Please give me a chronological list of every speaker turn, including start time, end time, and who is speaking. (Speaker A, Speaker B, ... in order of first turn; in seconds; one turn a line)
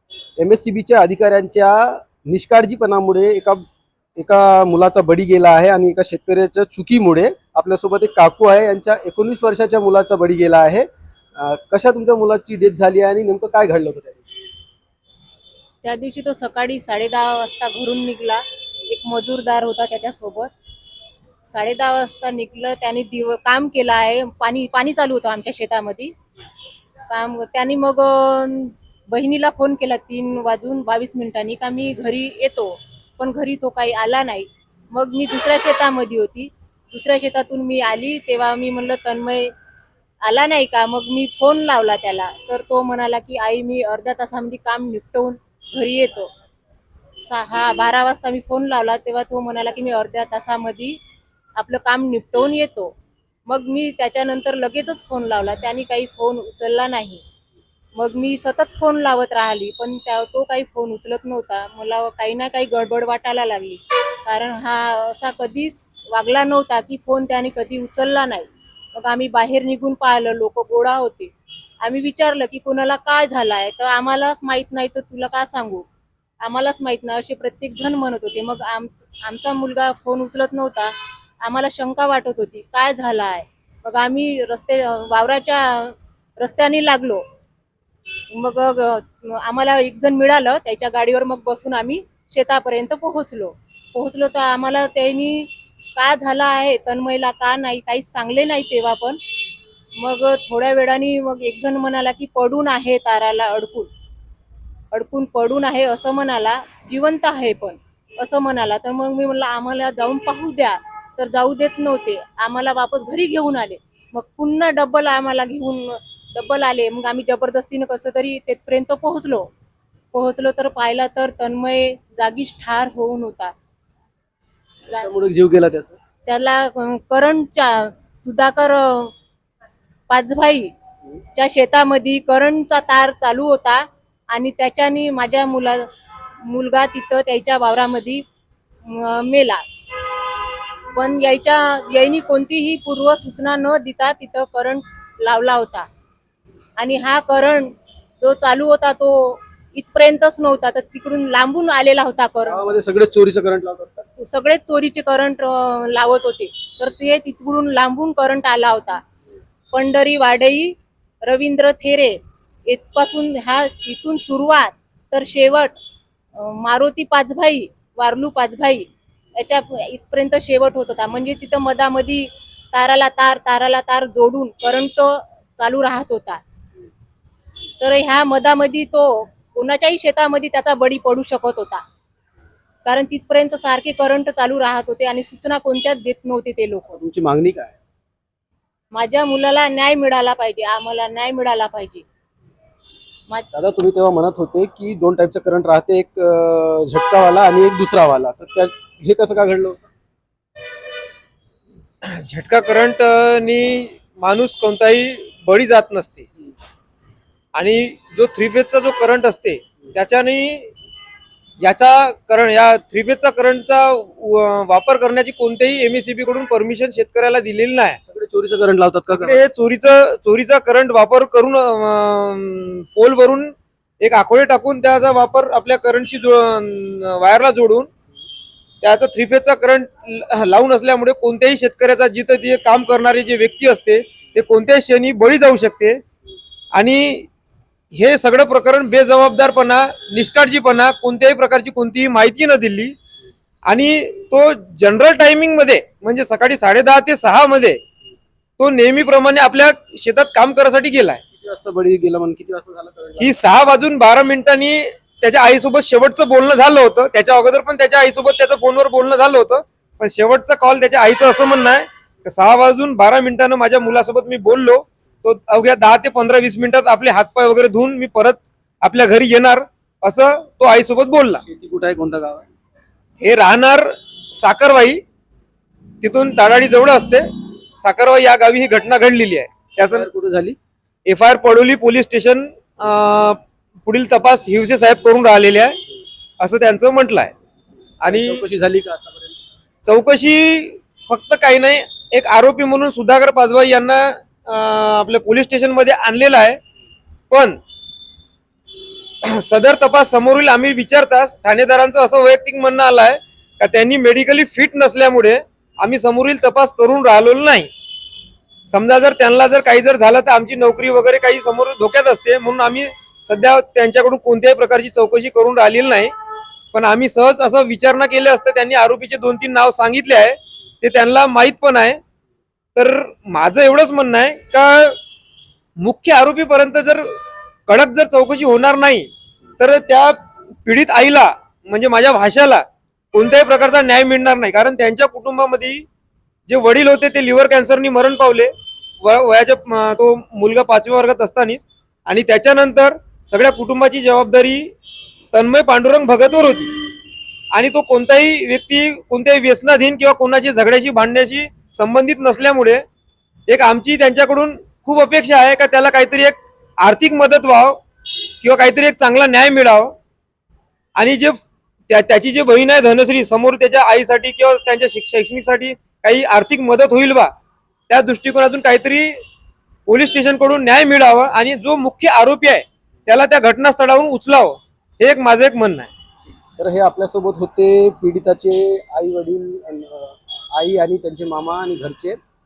Speaker A: 0.4-3.6
Speaker A: 4.2-14.4
Speaker B: 15.8-20.5
Speaker B: 21.4-26.1
Speaker B: 27.1-39.5
Speaker B: 40.2-46.3
Speaker B: 47.3-51.0
Speaker B: 51.6-52.9
Speaker B: 53.5-57.2
Speaker B: 58.0-75.8
Speaker B: 76.4-87.2
Speaker B: 88.3-99.2
Speaker B: 100.0-103.9
Speaker B: 104.9-119.5
Speaker B: 120.1-123.5
Speaker A: 124.9-126.0
Speaker B: 126.3-129.1
Speaker B: 130.1-130.7
Speaker B: 131.3-135.9
Speaker B: 136.4-138.2
Speaker B: 138.9-139.6
Speaker B: 140.9-145.9
Speaker B: 146.8-152.6
Speaker A: 152.4-154.1
Speaker B: 154.2-159.0
Speaker B: 159.7-162.2
Speaker B: 162.7-165.7
Speaker B: 166.3-176.4
Speaker B: 177.8-181.8
Speaker B: 182.8-187.0
Speaker A: 186.9-187.8
Speaker B: 188.9-192.1
Speaker A: 193.5-199.9
Speaker C: 202.0-206.3
Speaker C: 207.6-210.7
Speaker C: 211.6-218.0
Speaker A: 218.1-219.4
Speaker C: 219.1-227.9
Speaker C: 228.8-236.0
Speaker C: 236.7-237.3
Speaker C: 237.9-242.9
Speaker C: 243.7-247.8
Speaker C: 248.6-251.2
Speaker A: 251.3-253.3
Speaker C: 253.2-271.4
Speaker A: 271.4-272.5
Speaker C: 273.2-275.0
Speaker C: 276.0-277.3
Speaker C: 277.8-280.1
Speaker A: 279.8-280.6
Speaker C: 281.1-285.8
Speaker C: 286.4-287.3
Speaker C: 288.0-288.4
Speaker A: 288.0-289.4
Speaker C: 289.9-296.6
Speaker C: 297.3-297.6
Speaker C: 299.2-307.7
Speaker C: 308.7-316.1
Speaker C: 316.7-322.0
Speaker C: 322.8-325.0
Speaker C: 325.8-327.2
Speaker C: 327.7-335.9
Speaker C: 336.5-344.7
Speaker C: 345.3-346.8
Speaker C: 347.5-352.8
Speaker C: 353.5-357.8
Speaker C: 358.4-359.9
Speaker C: 361.0-367.3
Speaker C: 367.9-369.2
Speaker C: 369.9-375.9
Speaker A: 376.6-382.2